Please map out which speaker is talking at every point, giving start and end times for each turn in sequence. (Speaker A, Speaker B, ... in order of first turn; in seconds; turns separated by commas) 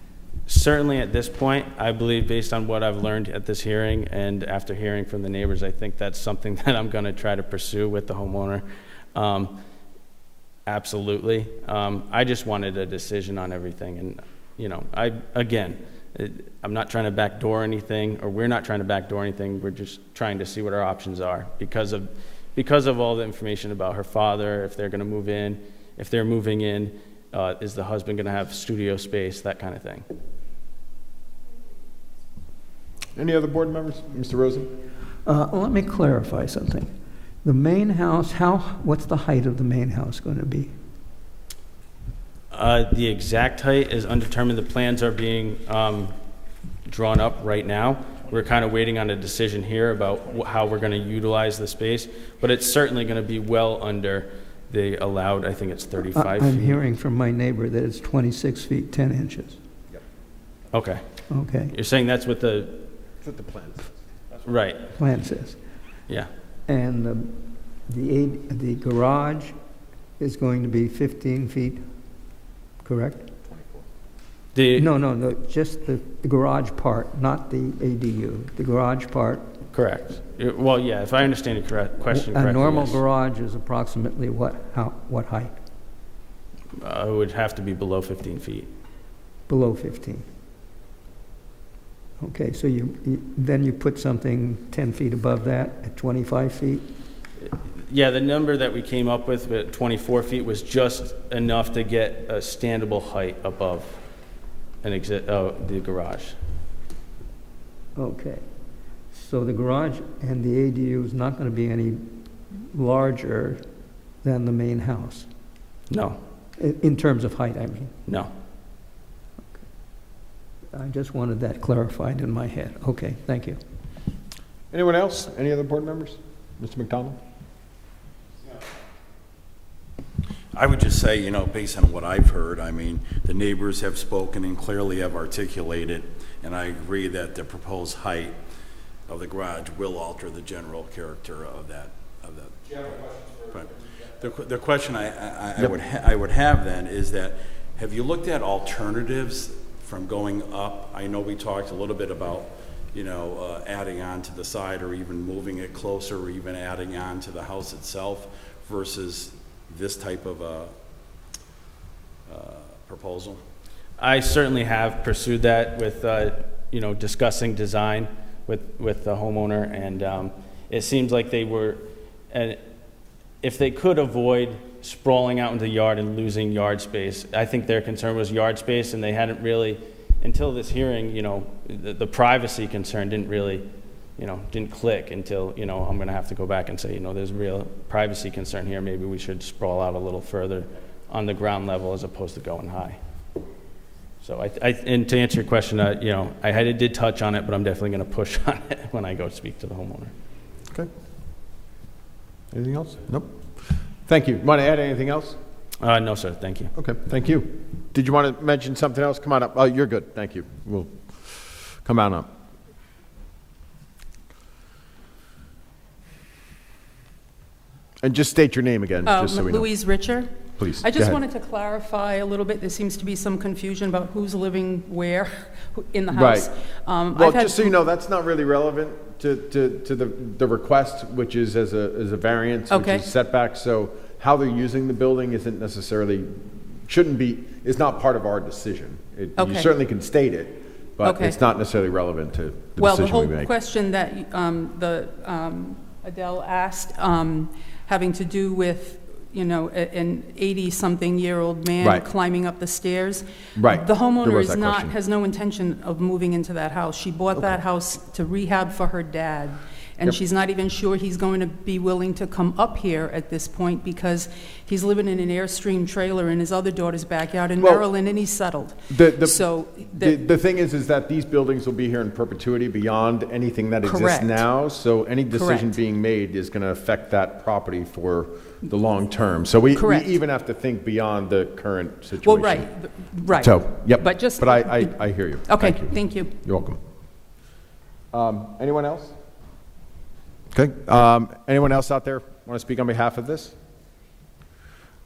Speaker A: 0.5-8.6, Speaker A: 9.2-9.6, Speaker A: 10.7-30.1, Speaker B: 33.2-34.7, Speaker C: 35.3-36.9, Speaker C: 37.4-40.7, Speaker A: 42.5-46.1, Speaker A: 46.9-56.8, Speaker C: 56.1-59.6, Speaker A: 60.7-61.0, Speaker C: 61.3-61.7, Speaker A: 61.7-62.9, Speaker B: 63.2-64.4, Speaker A: 64.5-64.8, Speaker C: 65.0-65.6, Speaker C: 66.7-67.3, Speaker C: 67.9-69.5, Speaker C: 70.2-71.8, Speaker C: 72.8-73.3, Speaker B: 73.5-73.9, Speaker A: 74.5-74.9, Speaker C: 74.8-79.5, Speaker A: 79.7-83.0, Speaker C: 82.1-85.5, Speaker A: 86.8-88.7, Speaker C: 89.5-90.2, Speaker C: 92.2-96.8, Speaker A: 97.8-104.0, Speaker A: 104.8-106.3, Speaker C: 108.0-108.4, Speaker C: 109.1-113.6, Speaker C: 114.2-115.3, Speaker A: 115.9-116.2, Speaker C: 116.6-117.9, Speaker C: 120.7-123.6, Speaker B: 124.7-127.2, Speaker D: 130.5-138.4, Speaker D: 139.1-142.9, Speaker D: 143.5-160.7, Speaker D: 162.3-163.4, Speaker A: 164.0-172.6, Speaker A: 173.4-183.7, Speaker A: 184.2-193.0, Speaker A: 194.2-200.1, Speaker B: 202.5-205.4, Speaker A: 205.8-206.7, Speaker B: 206.8-212.3, Speaker B: 218.0-219.7, Speaker E: 219.1-227.7, Speaker B: 220.6-221.2, Speaker B: 226.1-226.5, Speaker B: 227.1-243.5, Speaker E: 232.7-233.0, Speaker E: 239.4-239.7, Speaker E: 241.0-241.4, Speaker E: 242.8-270.2, Speaker B: 251.8-252.1, Speaker B: 253.6-254.9, Speaker B: 267.6-267.8, Speaker B: 268.9-282.7, Speaker E: 273.8-274.4, Speaker E: 275.3-275.8, Speaker E: 279.8-280.1, Speaker E: 282.2-286.3, Speaker B: 283.3-286.8, Speaker B: 288.1-289.1, Speaker B: 290.5-293.6